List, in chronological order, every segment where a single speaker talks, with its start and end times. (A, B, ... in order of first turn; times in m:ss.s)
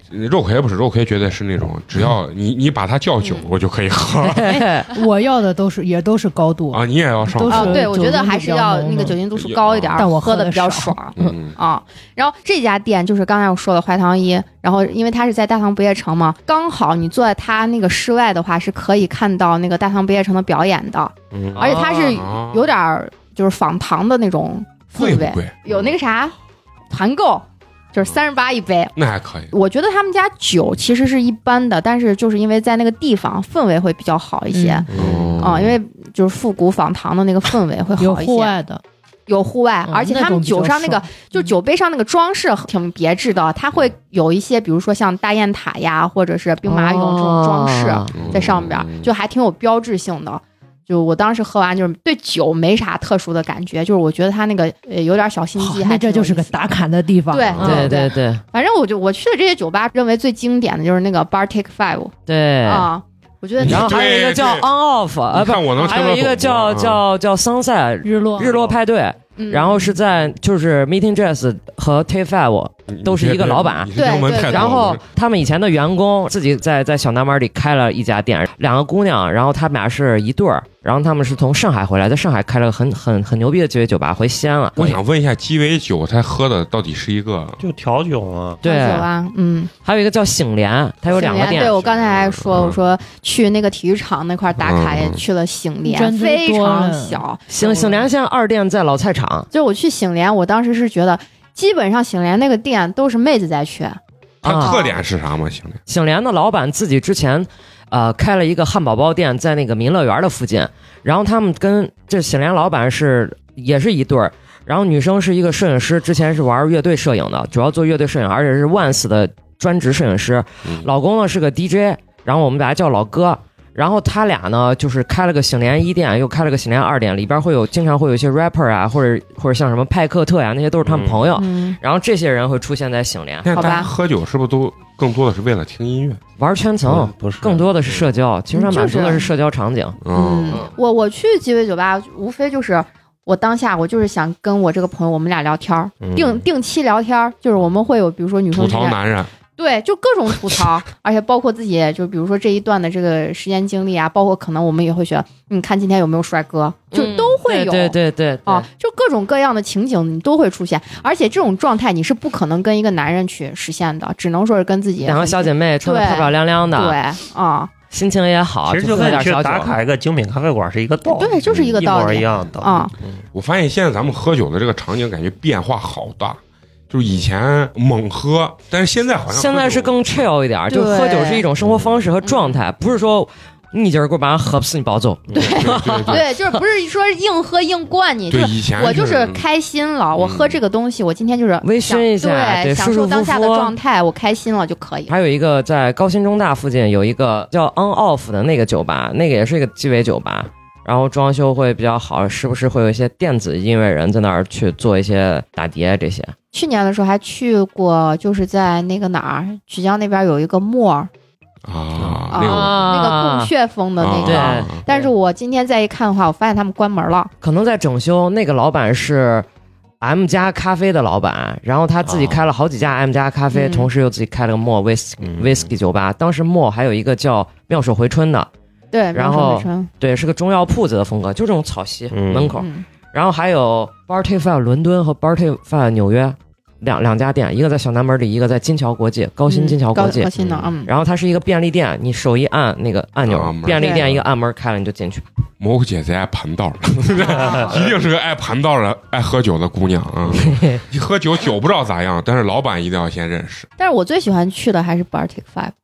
0:00.1-0:04.6 A
0:03.2-0:03.5 B
0:04.2-0:04.9 C
0:04.4-0:09.2 D
0:06.7-0:07.9 A
0:07.4-0:26.3 B
0:09.4-0:10.0 A
0:10.0-0:11.4 D
0:11.2-0:11.6 A
0:21.5-0:22.2 C
0:22.0-0:22.7 A
0:25.0-0:25.9 A
0:26.9-0:28.9 B
0:29.0-0:29.5 A
0:29.5-0:34.9 B
0:34.5-0:34.8 D
0:34.9-0:35.4 E
0:34.9-0:35.8 A
0:35.4-0:38.6 B
0:38.0-0:38.8 D
0:39.3-0:56.6 B
0:39.8-0:41.4 D
0:46.6-0:48.2 C
0:48.1-0:49.1 A
0:55.6-0:57.9 D
0:57.3-1:04.1 B
0:57.5-0:57.9 A
0:57.6-0:58.4 C
1:02.2-1:02.9 C
1:03.6-1:04.7 A
1:03.6-1:25.0 C
1:05.3-1:07.0 A
1:08.0-1:08.5 D
1:09.4-1:09.9 B
1:12.9-1:15.0 A
1:13.9-1:14.8 B
1:24.8-1:27.6 A
1:27.6-1:28.6 E
1:28.6-1:29.1 C
1:28.6-1:29.7 B
1:29.8-1:31.7 C
1:31.1-1:37.4 B
1:31.2-1:32.8 A
1:34.6-1:35.2 A
1:35.8-1:38.0 D
1:37.5-1:39.5 C
1:39.5-1:44.0 B
1:44.4-1:44.8 C
1:44.4-1:45.8 A
1:44.6-1:45.0 B
1:45.9-2:13.5 C
2:10.8-2:11.3 E
2:11.3-2:11.8 B
2:13.4-2:16.2 A
2:13.5-2:13.9 B
2:16.4-2:20.0 C
2:16.8-2:18.1 E
2:18.5-2:19.3 B
2:20.0-2:20.6 A
2:20.1-2:29.0 B
2:26.0-2:26.4 E
2:28.5-2:29.3 A
2:29.6-2:47.7 B
2:36.9-2:38.7 C
2:45.0-2:47.0 C
2:47.9-2:49.8 C
2:48.7-2:53.2 E
2:51.0-2:52.9 B
2:53.3-3:00.2 A
2:59.3-3:06.2 C
3:00.7-3:01.4 B
3:02.2-3:02.6 B
3:05.3-3:15.1 B
3:05.6-3:06.2 A
3:08.3-3:09.4 A
3:10.2-3:10.6 A
3:11.6-3:13.8 C
3:15.1-3:26.3 C
3:26.5-3:31.1 B
3:31.6-3:32.9 A
3:32.0-3:32.2 E
3:32.3-3:37.3 B
3:32.3-3:33.5 C
3:34.0-3:34.8 A
3:34.2-3:35.0 C
3:37.4-3:39.5 C
3:40.0-3:48.5 C
3:42.0-3:42.4 E
3:43.5-3:43.9 B
3:45.2-3:45.7 E
3:48.9-3:49.9 B
3:49.1-4:00.3 C
3:52.1-3:52.6 E
3:52.6-3:52.8 B
3:59.5-4:00.9 B
4:00.4-4:00.7 E
4:00.8-4:05.2 C
4:03.2-4:04.2 A
4:03.8-4:04.0 B
4:05.6-4:13.7 A
4:07.2-4:07.9 B
4:13.8-4:15.7 B